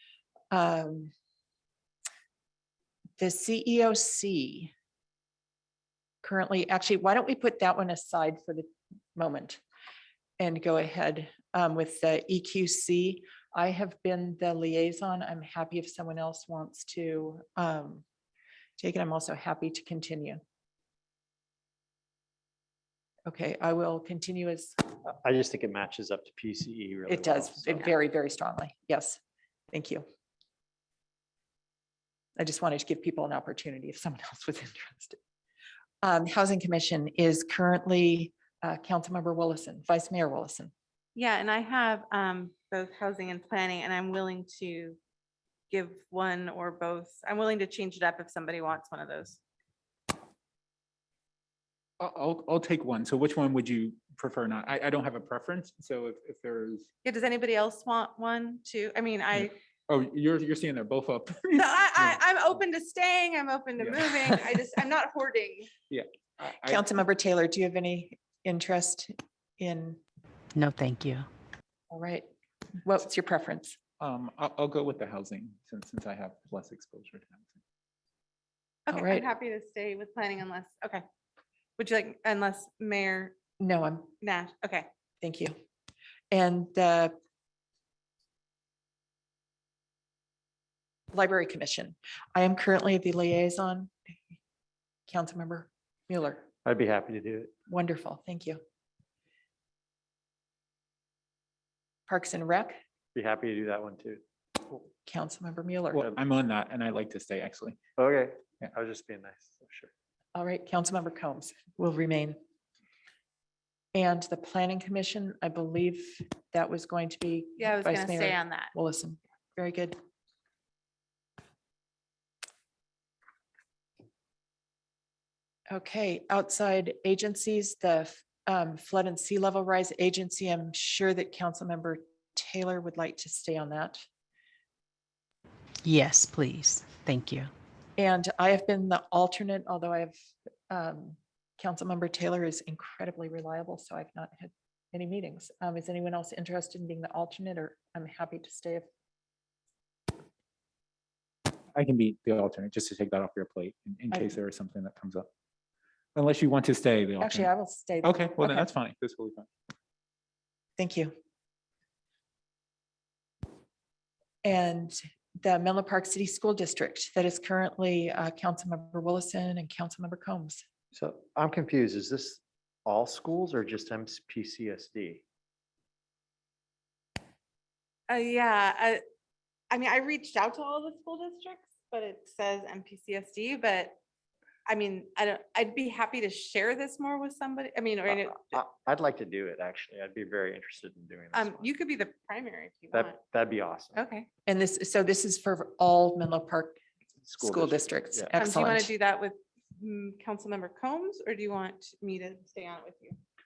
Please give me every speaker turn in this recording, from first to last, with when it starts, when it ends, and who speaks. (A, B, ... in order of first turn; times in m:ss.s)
0:00.5-0:01.1 A
0:03.2-0:04.7 A
0:06.2-0:09.6 A
0:10.4-0:18.0 A
0:18.8-0:20.4 A
0:23.3-0:24.8 A
0:25.0-0:27.9 B
0:27.1-0:29.2 A
0:29.7-0:30.0 A
0:32.4-0:35.2 A
0:36.0-0:40.7 A
0:41.1-0:45.0 C
0:45.7-0:49.4 C
0:52.0-0:56.9 D
0:57.0-0:59.5 C
0:59.3-1:02.2 D
1:01.5-1:05.7 C
1:03.8-1:04.4 D
1:05.9-1:06.8 D
1:06.6-1:10.0 A
1:10.5-1:11.3 E
1:11.9-1:12.3 A
1:12.8-1:13.8 A
1:14.0-1:17.6 D
1:18.9-1:21.0 C
1:18.9-1:19.3 A
1:21.8-1:23.4 C
1:23.6-1:24.1 A
1:24.2-1:24.9 C
1:25.2-1:25.5 A
1:26.3-1:27.1 A
1:31.1-1:33.9 A
1:35.1-1:36.4 A
1:36.6-1:37.5 B
1:37.7-1:38.6 A
1:42.1-1:42.8 A
1:43.1-1:44.8 B
1:45.0-1:46.0 A
1:45.9-1:47.8 D
1:48.0-1:49.9 B
1:50.3-1:52.4 A
1:53.9-2:00.0 A
1:57.6-1:58.7 C
2:05.7-2:14.0 A
2:15.8-2:17.5 E
2:18.0-2:28.9 A
2:31.7-2:35.3 D
2:36.1-2:37.5 D
2:37.2-2:38.7 A
2:38.0-2:39.5 D
2:40.8-2:41.1 A
2:44.4-2:50.6 A
2:50.9-2:55.2 B
2:58.1-2:59.0 C
2:59.7-3:04.0 C
3:04.6-3:08.6 C
3:08.1-3:11.7 B
3:11.3-3:13.2 C
3:12.9-3:14.0 B
3:13.9-3:14.3 C
3:14.4-3:16.8 A
3:17.2-3:18.3 B
3:17.4-3:18.9 A
3:18.4-3:23.2 C